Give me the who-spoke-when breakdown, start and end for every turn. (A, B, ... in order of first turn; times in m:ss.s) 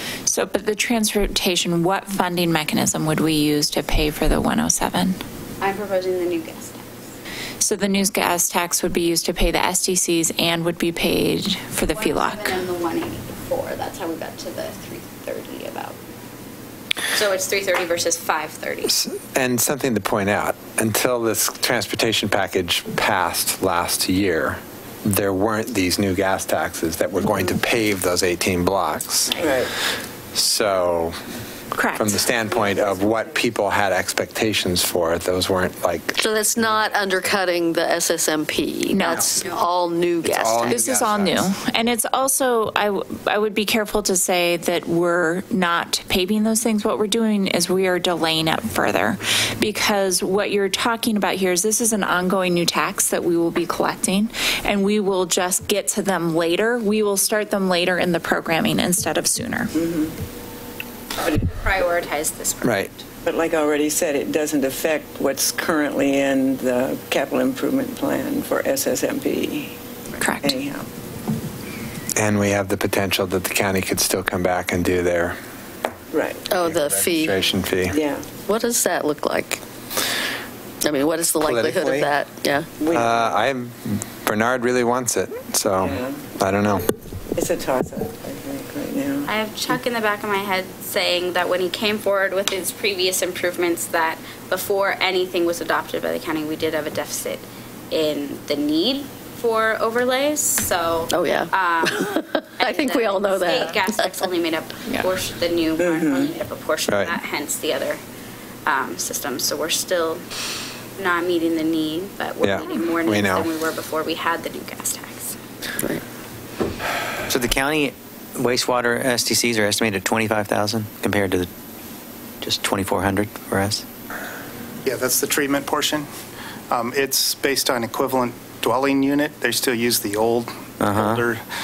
0:00.3-0:05.2 A
0:05.6-0:06.9 B
0:07.6-0:12.5 A
0:11.9-0:16.0 B
0:17.1-0:18.9 B
0:18.9-0:29.4 C
0:29.4-0:29.7 D
0:30.3-0:31.1 C
0:31.7-0:32.2 A
0:31.9-0:36.9 C
0:36.2-0:40.8 E
0:38.9-0:39.2 A
0:39.4-0:39.7 B
0:40.2-0:41.5 C
0:40.6-0:59.7 A
0:59.8-1:00.1 D
1:01.3-1:03.0 B
1:02.6-1:02.9 C
1:03.2-1:09.7 D
1:10.2-1:10.6 A
1:10.4-1:10.9 D
1:12.2-1:15.4 C
1:16.1-1:16.5 D
1:16.5-1:17.4 E
1:16.5-1:18.0 C
1:17.9-1:18.2 D
1:18.5-1:19.6 E
1:20.8-1:22.7 E
1:21.4-1:22.1 C
1:22.8-1:23.4 D
1:22.9-1:26.8 C
1:25.8-1:26.2 D
1:27.3-1:29.3 D
1:29.2-1:48.0 B
1:41.1-1:44.3 E
1:45.8-1:46.3 D
1:46.9-1:47.2 C
1:48.6-1:50.2 B
1:51.0-1:55.4 B
1:52.4-1:53.5 C
1:57.3-2:01.5 F
2:02.4-2:03.8 F
2:04.8-2:06.1 G
2:06.7-2:11.4 G
2:10.8-2:11.2 F